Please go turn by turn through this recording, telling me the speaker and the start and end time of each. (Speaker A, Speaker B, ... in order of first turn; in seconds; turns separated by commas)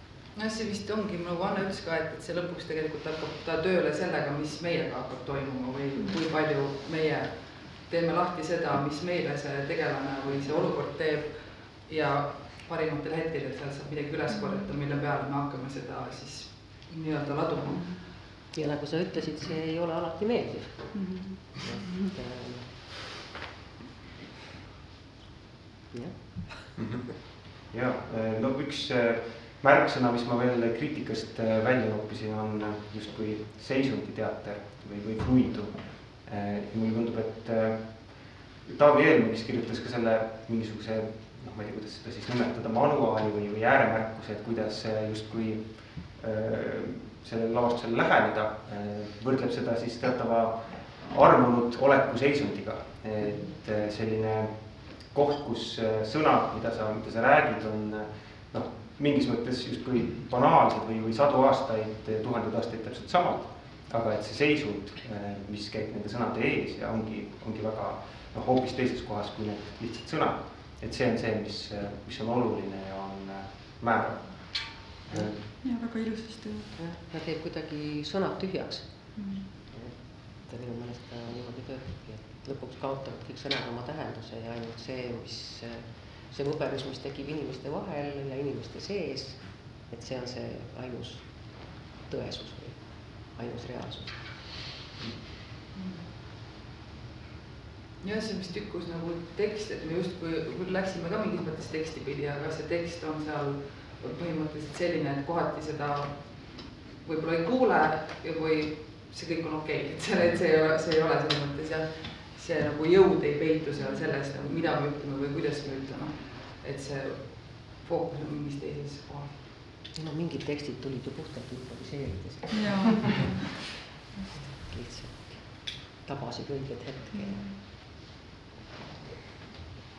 Speaker A: 0.3-18.0, Speaker B: 14.3-14.7, Speaker C: 18.5-22.7, Speaker B: 21.0-21.4, Speaker C: 25.9-26.8, Speaker D: 26.8-75.4, Speaker B: 75.6-76.7, Speaker C: 76.8-94.4, Speaker B: 79.2-79.5, Speaker A: 98.0-119.4, Speaker C: 119.9-123.3, Speaker B: 122.5-123.5, Speaker C: 124.4-127.5, Speaker B: 127.1-127.5